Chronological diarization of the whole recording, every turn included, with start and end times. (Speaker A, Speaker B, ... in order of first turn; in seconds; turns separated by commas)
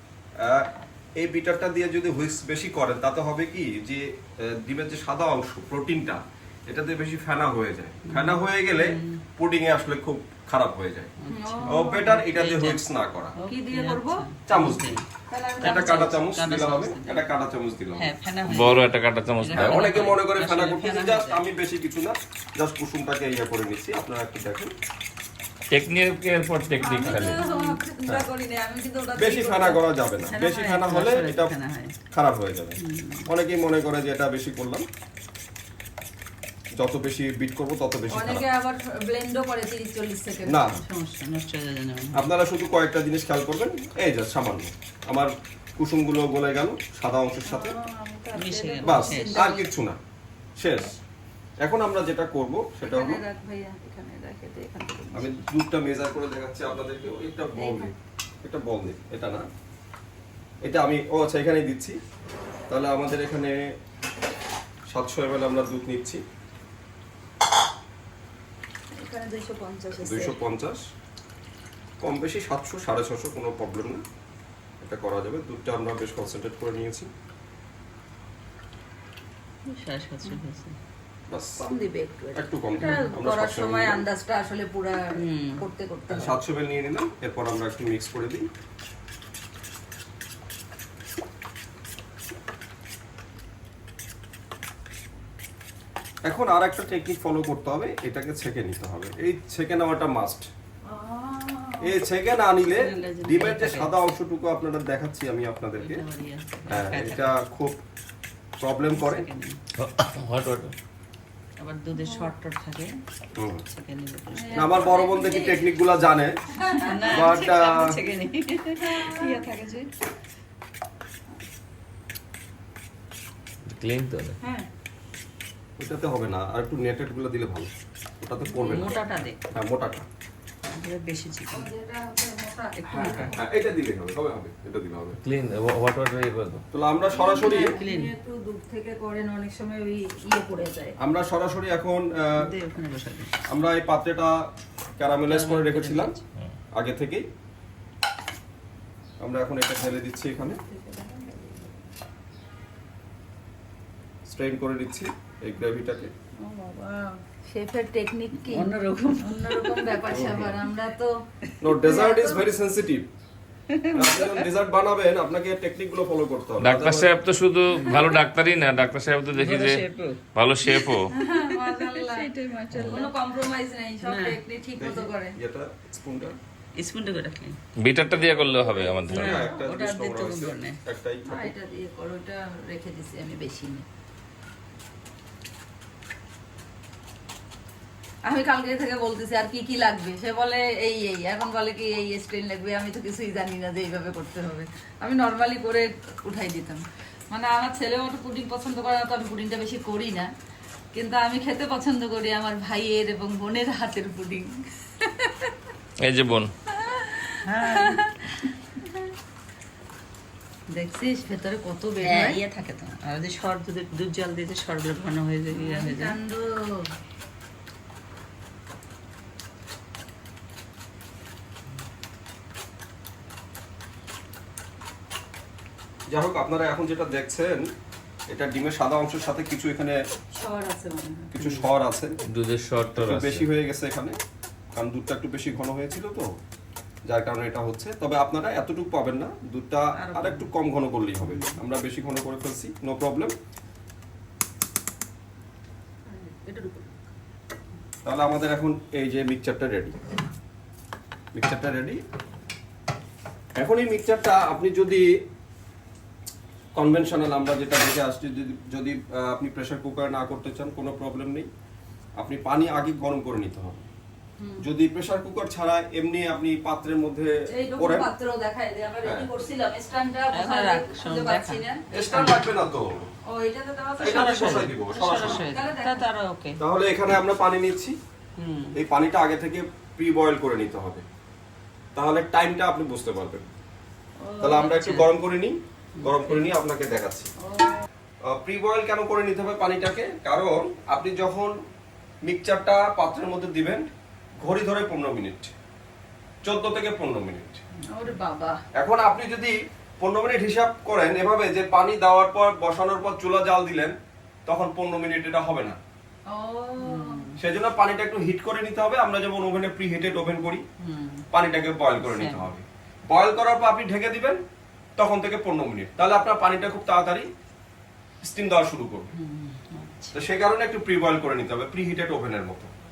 Speaker A: 0.4-11.1, Speaker B: 8.1-9.2, Speaker B: 11.2-12.8, Speaker C: 11.3-12.1, Speaker A: 11.7-13.3, Speaker B: 13.3-15.0, Speaker C: 13.4-14.2, Speaker A: 14.5-15.0, Speaker C: 15.3-16.1, Speaker B: 15.6-17.2, Speaker A: 15.6-18.1, Speaker B: 18.0-18.9, Speaker D: 18.4-19.9, Speaker B: 19.4-21.4, Speaker A: 19.5-24.7, Speaker D: 25.7-27.4, Speaker C: 26.8-29.8, Speaker B: 27.0-27.8, Speaker A: 29.1-31.5, Speaker B: 30.2-31.9, Speaker A: 32.1-34.8, Speaker B: 32.8-33.3, Speaker A: 36.8-38.5, Speaker C: 38.1-40.7, Speaker A: 40.5-40.8, Speaker B: 40.7-42.2, Speaker A: 42.1-47.8, Speaker C: 47.5-49.7, Speaker B: 48.3-49.5, Speaker A: 48.8-50.0, Speaker A: 50.6-50.9, Speaker A: 51.6-53.2, Speaker C: 52.8-55.3, Speaker A: 55.1-59.5, Speaker C: 57.5-57.9, Speaker A: 60.6-62.0, Speaker A: 62.7-63.5, Speaker A: 64.9-66.2, Speaker C: 68.9-70.4, Speaker A: 70.0-70.8, Speaker A: 72.0-74.0, Speaker A: 74.8-77.1, Speaker B: 79.7-80.7, Speaker A: 81.3-81.7, Speaker C: 81.6-86.4, Speaker A: 82.3-84.0, Speaker B: 85.1-85.6, Speaker A: 86.1-88.5, Speaker A: 96.2-100.5, Speaker C: 100.9-102.0, Speaker A: 101.8-106.0, Speaker B: 102.6-104.0, Speaker B: 105.8-107.3, Speaker A: 106.7-107.8, Speaker A: 108.6-109.3, Speaker B: 108.9-109.6, Speaker D: 109.8-110.7, Speaker B: 111.6-112.9, Speaker C: 112.0-112.3, Speaker A: 113.3-113.6, Speaker B: 113.7-114.7, Speaker C: 114.3-115.7, Speaker A: 114.5-116.3, Speaker C: 116.6-117.3, Speaker B: 116.8-119.9, Speaker A: 117.1-117.9, Speaker C: 118.8-119.4, Speaker D: 123.7-124.4, Speaker C: 124.4-124.7, Speaker A: 125.8-129.0, Speaker C: 128.4-129.0, Speaker B: 128.6-129.4, Speaker A: 129.5-130.1, Speaker B: 130.7-131.7, Speaker C: 131.5-132.8, Speaker B: 132.8-133.4, Speaker A: 132.9-135.2, Speaker D: 135.2-136.6, Speaker A: 136.7-137.7, Speaker C: 137.1-140.9, Speaker B: 137.4-138.1, Speaker A: 141.0-142.5, Speaker B: 142.4-143.3, Speaker A: 143.5-144.3, Speaker A: 145.0-146.1, Speaker B: 145.2-146.2, Speaker A: 146.8-147.2, Speaker A: 149.2-150.6, Speaker C: 150.4-151.7, Speaker A: 154.3-156.1, Speaker C: 156.4-161.1, Speaker B: 158.5-160.0, Speaker A: 160.1-160.6, Speaker A: 161.6-163.1, Speaker C: 161.8-162.5, Speaker B: 163.7-164.4, Speaker A: 163.9-167.1, Speaker D: 166.6-169.8, Speaker B: 167.8-168.2, Speaker B: 169.3-173.1, Speaker D: 170.3-171.1, Speaker C: 171.1-175.3, Speaker B: 174.0-174.4, Speaker A: 174.8-176.3, Speaker B: 176.7-177.6, Speaker D: 177.8-179.3, Speaker C: 178.8-179.4, Speaker A: 179.1-181.5, Speaker B: 179.1-180.8, Speaker C: 181.2-183.8, Speaker C: 188.2-200.3, Speaker C: 200.9-205.5, Speaker D: 206.0-206.5, Speaker C: 206.7-208.9, Speaker B: 207.5-208.1, Speaker C: 210.7-212.4, Speaker B: 212.0-216.2, Speaker C: 215.5-216.9, Speaker A: 226.1-227.6, Speaker A: 228.3-230.0, Speaker C: 230.3-231.3, Speaker A: 231.3-232.2, Speaker B: 231.4-231.7, Speaker D: 232.3-233.5, Speaker A: 232.9-234.2, Speaker A: 234.7-236.3, Speaker A: 237.1-243.3, Speaker C: 239.9-240.5, Speaker B: 241.2-241.6, Speaker C: 246.1-246.9, Speaker A: 248.0-250.0, Speaker A: 251.3-252.0, Speaker A: 253.6-255.1, Speaker A: 256.7-261.5, Speaker A: 262.2-263.8, Speaker C: 264.4-264.6, Speaker A: 264.6-268.1, Speaker C: 267.5-272.4, Speaker A: 269.0-269.3, Speaker B: 270.3-271.6, Speaker A: 271.9-273.1, Speaker C: 273.3-274.7, Speaker A: 274.0-275.4, Speaker B: 274.0-276.6, Speaker C: 275.4-276.0, Speaker A: 276.6-278.0, Speaker B: 278.4-278.8, Speaker A: 278.7-281.0, Speaker A: 281.9-283.5, Speaker C: 284.2-284.7, Speaker A: 284.4-287.3, Speaker B: 284.5-285.1, Speaker B: 285.9-286.4, Speaker C: 287.4-287.8, Speaker A: 288.3-291.5, Speaker A: 292.2-293.9, Speaker A: 294.4-295.5, Speaker A: 296.4-297.6, Speaker C: 297.9-298.6, Speaker A: 298.8-303.9, Speaker A: 304.4-305.8, Speaker C: 306.3-307.2, Speaker B: 306.8-307.4, Speaker A: 307.4-310.6, Speaker B: 310.8-311.2, Speaker A: 311.3-314.4, Speaker B: 312.0-312.5, Speaker A: 315.0-317.3, Speaker A: 318.2-319.1, Speaker B: 319.1-320.1, Speaker A: 320.1-322.7